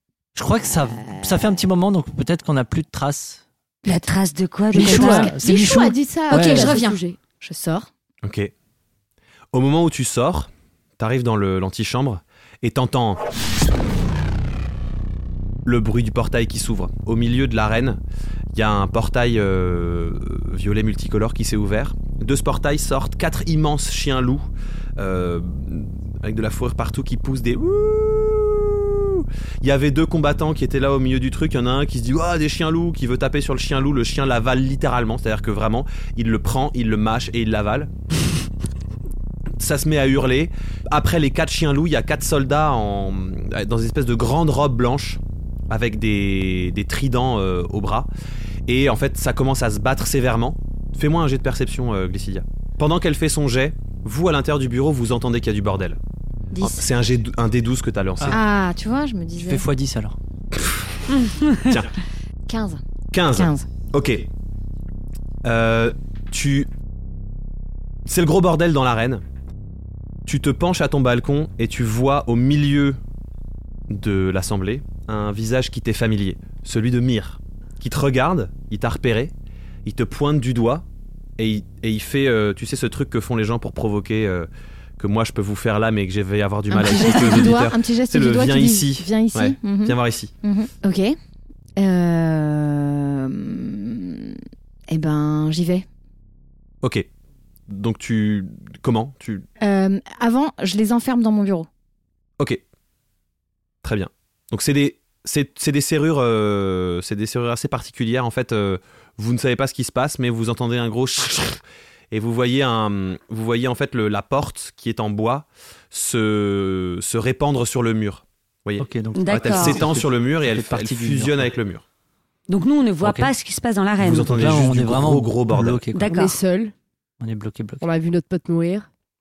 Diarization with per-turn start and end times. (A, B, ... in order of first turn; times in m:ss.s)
0:00.4-0:03.4 A
0:03.8-0:05.3 B
0:04.7-0:07.2 C
0:04.7-0:06.8 A
0:05.0-0:05.3 D
0:06.3-0:07.9 D
0:08.2-0:08.5 E
0:09.5-0:13.2 E
0:15.6-0:18.0 E
0:18.5-0:24.5 E
0:25.0-0:37.9 E
0:39.6-0:48.1 E
0:48.7-0:56.0 E
0:56.5-0:56.8 D
0:56.6-0:58.4 E
0:58.3-0:59.7 D
0:59.4-1:00.2 A
1:01.6-1:01.9 E
1:02.5-1:03.7 D
1:03.1-1:04.3 E
1:05.4-1:06.7 E
1:08.1-1:09.2 E
1:10.3-1:13.0 E
1:13.9-1:19.3 E
1:19.8-1:20.8 E
1:21.4-1:30.3 E
1:26.7-1:31.2 D
1:31.8-1:35.9 D
1:37.7-1:39.5 E
1:39.6-1:41.7 D
1:43.8-1:51.6 E
1:52.1-2:01.8 E
1:58.8-2:01.5 A
1:59.2-1:59.8 B
2:02.5-2:04.3 B
2:03.0-2:03.3 A
2:04.0-2:05.8 E
2:04.0-2:06.2 A
2:05.9-2:06.4 B
2:06.0-2:06.7 C
2:07.2-2:07.8 A
2:07.8-2:08.9 C